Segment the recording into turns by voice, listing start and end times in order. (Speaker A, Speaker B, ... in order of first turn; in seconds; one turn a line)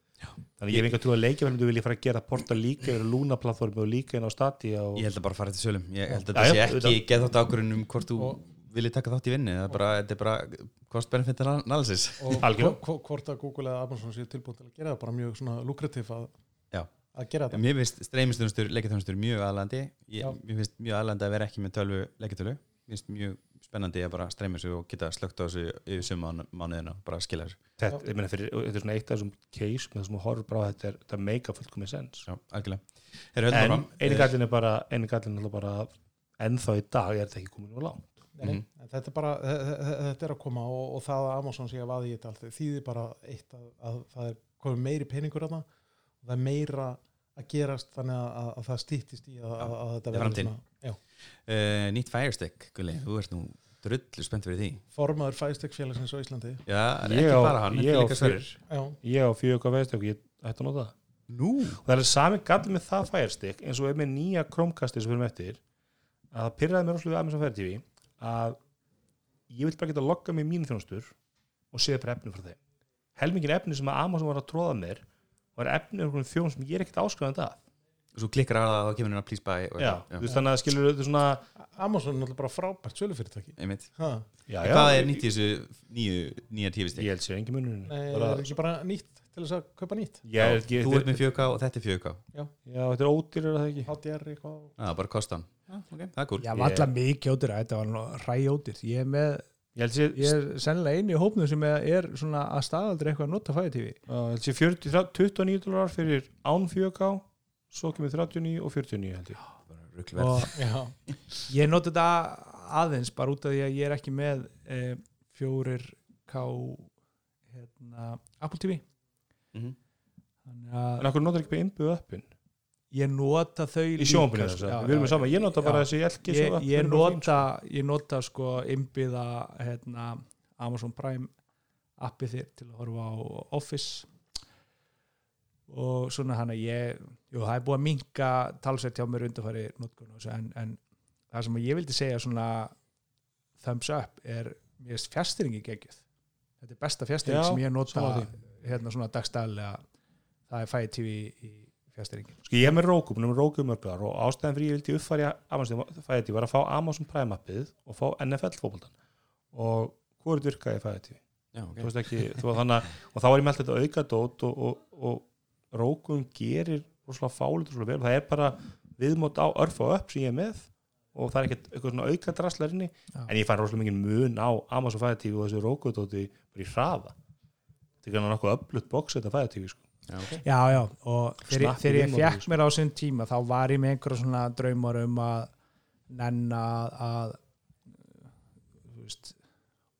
Speaker A: 0.6-5.1
Speaker B: 5.0-12.5
Speaker A: 6.3-7.0
Speaker C: 12.2-16.3
Speaker A: 12.4-12.8
Speaker C: 17.1-17.6
Speaker B: 17.5-27.6
Speaker A: 27.8-32.3
Speaker B: 32.3-34.3
Speaker A: 33.5-38.3
Speaker C: 38.4-45.7
Speaker C: 46.2-51.0
Speaker B: 49.6-50.5
Speaker B: 51.5-54.8
Speaker C: 54.9-56.6
Speaker B: 56.7-58.6
Speaker A: 57.0-58.4
Speaker C: 58.7-59.0
Speaker A: 59.0-60.9
Speaker B: 61.3-61.8
Speaker A: 61.8-65.6
Speaker A: 66.3-68.6
Speaker A: 69.5-71.2
Speaker A: 71.7-72.6
Speaker A: 73.2-75.0
Speaker A: 75.6-77.6
Speaker B: 78.1-80.3
Speaker A: 79.8-81.5
Speaker C: 81.6-84.2
Speaker B: 83.6-83.9
Speaker A: 84.5-85.2
Speaker B: 84.6-87.1
Speaker A: 87.0-88.5
Speaker C: 87.9-90.2
Speaker A: 90.2-91.2
Speaker B: 90.4-92.2
Speaker A: 92.7-93.9
Speaker C: 93.8-94.7
Speaker B: 94.8-96.5
Speaker D: 96.4-99.5
Speaker A: 96.5-96.9
Speaker A: 99.8-100.4
Speaker D: 100.2-104.0
Speaker A: 104.1-109.4
Speaker B: 109.7-110.6
Speaker D: 110.2-110.5
Speaker C: 110.5-110.9
Speaker D: 111.5-116.9
Speaker D: 117.5-118.8
Speaker D: 120.5-121.1
Speaker A: 121.0-122.3
Speaker D: 122.9-131.3
Speaker A: 124.0-127.4
Speaker D: 132.0-134.1
Speaker D: 135.7-140.8
Speaker D: 141.3-142.7
Speaker D: 143.6-146.0
Speaker D: 146.6-149.8
Speaker A: 147.2-148.3
Speaker D: 150.5-152.4
Speaker A: 152.4-158.9
Speaker A: 159.5-161.2
Speaker B: 161.5-162.3
Speaker A: 161.8-177.1
Speaker A: 178.0-179.8
Speaker D: 180.4-185.5
Speaker A: 181.4-182.5
Speaker D: 186.1-187.4
Speaker D: 188.9-189.4